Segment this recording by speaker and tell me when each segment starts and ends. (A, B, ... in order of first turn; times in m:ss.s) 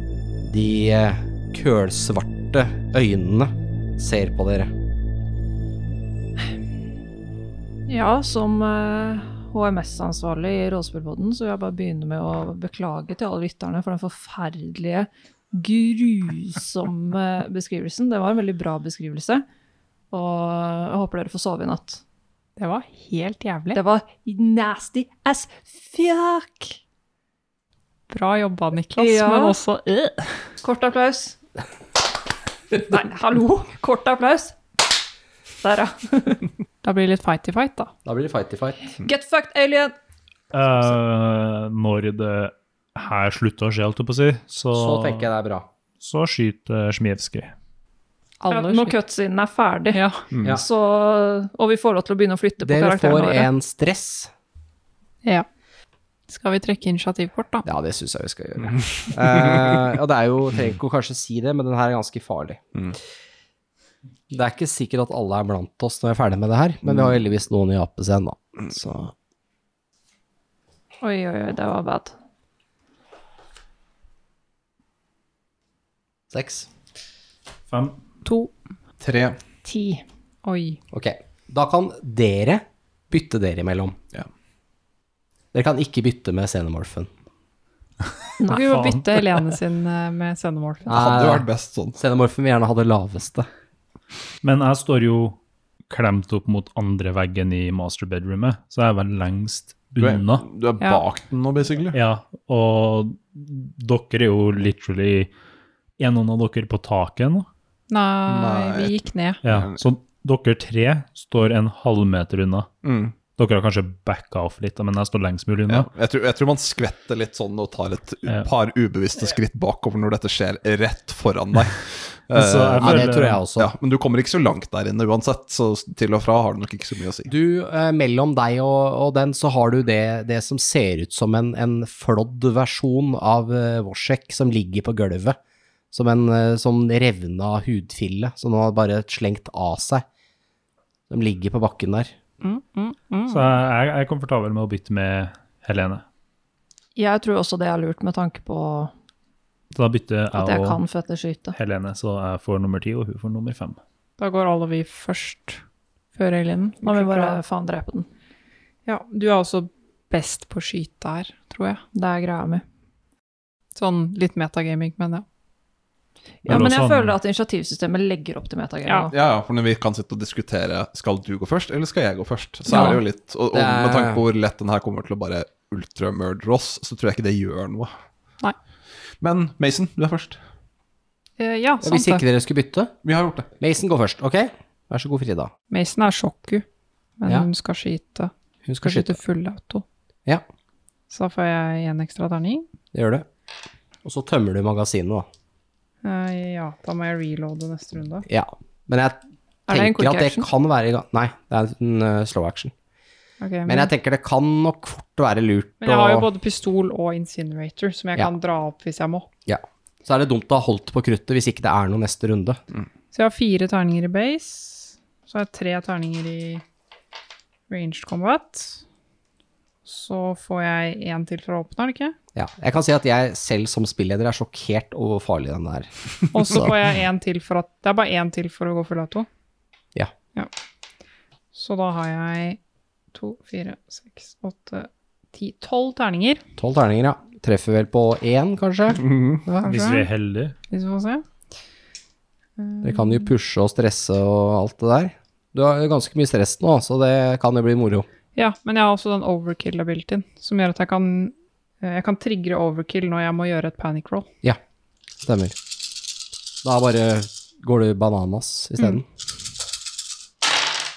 0:00.4-0:04.7 A
0:07.9-0:19.4 B
0:20.1-0:22.0 B
0:22.6-0:23.8 C
0:23.7-0:26.8 B
0:28.1-0:30.3 C
0:29.0-0:29.6 B
0:30.6-0:31.4 B
0:32.7-0:34.6 B
0:35.6-0:36.5 B
0:36.8-0:37.9 C
0:38.0-0:38.9 A
0:39.0-0:40.0 B
0:40.5-0:45.3 D
0:44.7-0:45.7 A
0:46.0-0:47.5 D
0:48.4-0:49.0 C
0:48.5-0:53.5 B
0:49.9-0:50.2 C
0:50.3-0:50.6 E
0:52.6-0:54.3 A
0:56.3-0:57.6 C
0:57.6-1:02.7 A
1:04.3-1:09.1 A
1:11.0-1:12.2 B
1:16.3-1:16.7 A
1:17.7-1:18.0 D
1:18.2-1:18.5 C
1:19.0-1:19.4 E
1:19.6-1:20.0 B
1:20.4-1:20.8 C
1:20.9-1:24.0 A
1:25.5-1:27.1 A
1:28.4-1:28.6 B
1:28.5-1:31.0 C
1:28.5-1:29.1 D
1:30.9-1:32.0 E
1:30.9-1:33.5 A
1:34.4-1:35.4 D
1:35.9-1:40.5 D
1:40.0-1:42.0 E
1:41.9-1:45.3 D
1:46.0-1:47.5 D
1:47.9-1:49.4 C
1:48.3-1:49.8 E
1:49.4-1:52.7 D
1:52.8-1:53.2 E
1:53.4-1:55.9 D
1:55.7-2:07.3 E
2:02.3-2:03.4 D
2:02.8-2:03.7 A
2:07.3-2:15.4 A
2:15.9-2:20.0 A
2:21.1-2:22.1 A
2:22.4-2:23.5 C
2:23.3-2:26.0 D
2:27.0-2:28.9 B
2:29.7-2:30.8 D
2:30.3-2:31.6 B
2:31.6-2:33.8 D
2:34.2-2:35.6 C
2:36.2-2:37.4 C
2:36.8-2:38.1 B
2:38.9-2:41.8 C
2:41.9-2:42.6 B
2:43.8-2:45.2 C
2:46.4-2:47.2 D
2:46.4-2:49.1 B
2:48.9-2:49.1 C
2:49.1-2:57.9 E
2:52.7-2:53.0 C
2:53.5-2:54.2 A
2:59.2-3:00.4 E
3:01.4-3:02.2 C
3:01.8-3:02.9 A
3:03.0-3:03.5 E
3:03.6-3:05.5 A
3:05.7-3:06.6 C
3:07.2-3:08.3 C
3:08.7-3:09.2 A
3:08.8-3:09.8 C
3:11.1-3:12.7 C
3:12.9-3:13.3 A
3:14.0-3:15.3 A
3:16.0-3:18.2 C
3:18.3-3:22.7 A
3:19.7-3:20.5 B
3:23.4-3:23.9 C
3:23.7-3:26.3 A
3:25.8-3:29.3 C
3:29.5-3:32.6 A
3:33.1-3:36.6 C
3:37.7-3:38.8 C
3:39.8-3:42.2 C
3:42.4-3:45.9 A
3:46.3-3:49.3 C
3:51.5-3:52.6 C
3:53.1-3:56.4 C
3:56.6-3:59.6 A
3:59.0-3:59.4 E
3:59.5-4:00.1 C
3:59.6-4:00.6 D
4:00.7-4:01.2 C
4:02.6-4:03.3 C
4:02.8-4:08.1 A
4:08.4-4:14.3 C
4:15.2-4:15.6 A
4:16.6-4:19.0 A